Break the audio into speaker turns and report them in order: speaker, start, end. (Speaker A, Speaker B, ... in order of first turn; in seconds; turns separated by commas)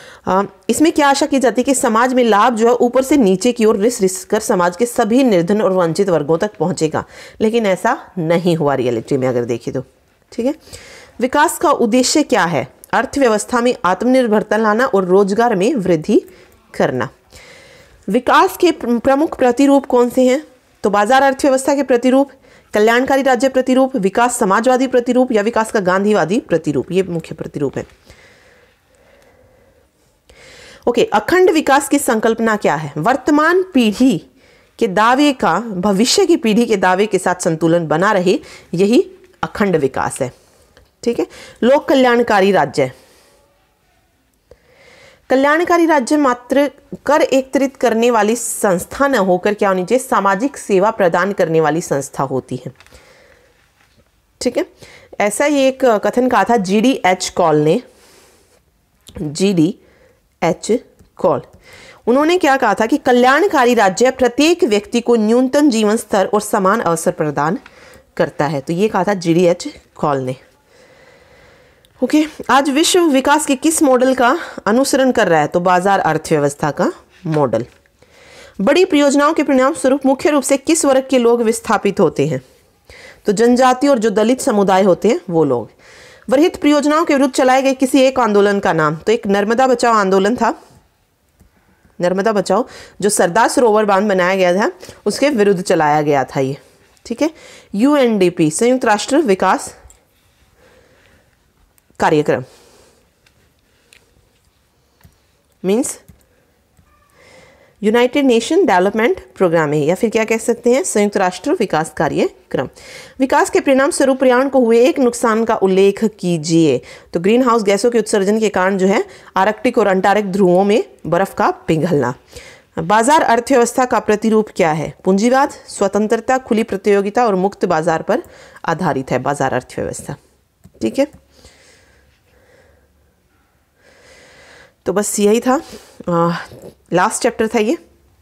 Speaker A: 0.2-10.6, Speaker A: 11.2-17.1, Speaker A: 18.1-27.9, Speaker A: 30.9-34.2, Speaker A: 34.8-40.3, Speaker A: 41.0-42.9, Speaker A: 45.3-52.7, Speaker A: 54.4-54.7, Speaker A: 55.2-57.8, Speaker A: 59.1-59.8, Speaker A: 60.4-61.5, Speaker A: 62.1-67.6, Speaker A: 68.2-70.4, Speaker A: 72.0-77.7, Speaker A: 78.6-82.4, Speaker A: 83.2-85.7, Speaker A: 86.3-90.5, Speaker A: 92.0-99.7, Speaker A: 102.0-102.5, Speaker A: 105.6-106.0, Speaker A: 107.8-122.2, Speaker A: 122.8-130.2, Speaker A: 130.8-131.1, Speaker A: 134.8-137.8